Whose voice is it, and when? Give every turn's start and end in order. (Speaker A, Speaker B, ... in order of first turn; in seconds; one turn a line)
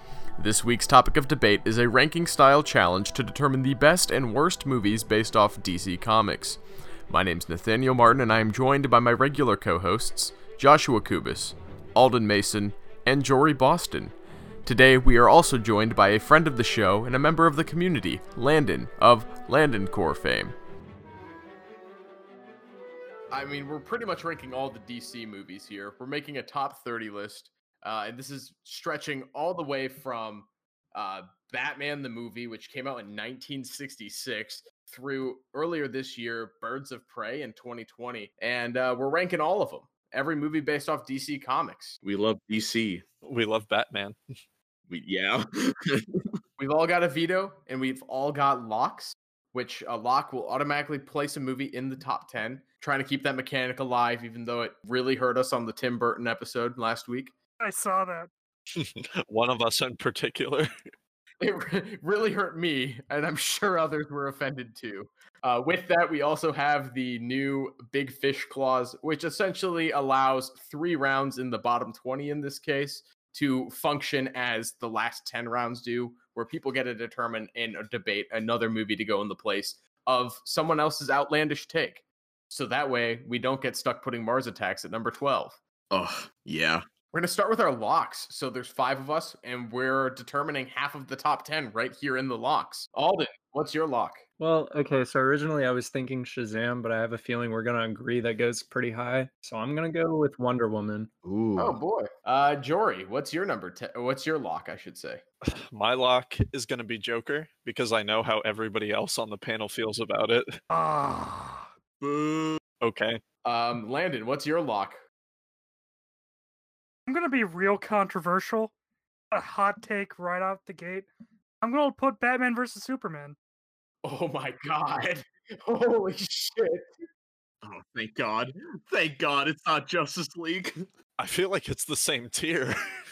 Speaker A: 0.4-14.1
Speaker A: 14.6-20.5
Speaker A: 23.3-42.0
Speaker B: 42.0-43.0
Speaker C: 43.2-44.2
Speaker B: 44.9-46.3
Speaker A: 46.6-57.3
Speaker D: 57.6-58.3
Speaker C: 58.7-60.7
Speaker A: 61.4-85.6
Speaker B: 85.9-86.8
Speaker A: 87.1-94.2
Speaker E: 94.4-101.1
Speaker B: 101.2-101.8
Speaker A: 101.6-105.2
Speaker C: 105.5-110.6
Speaker D: 110.7-111.7
Speaker B: 112.0-112.6
Speaker C: 112.8-113.2
Speaker A: 113.4-115.0
Speaker D: 117.1-118.7
Speaker D: 119.3-121.1
Speaker D: 121.6-123.3
Speaker A: 124.0-126.9
Speaker B: 127.6-130.8
Speaker C: 131.2-132.7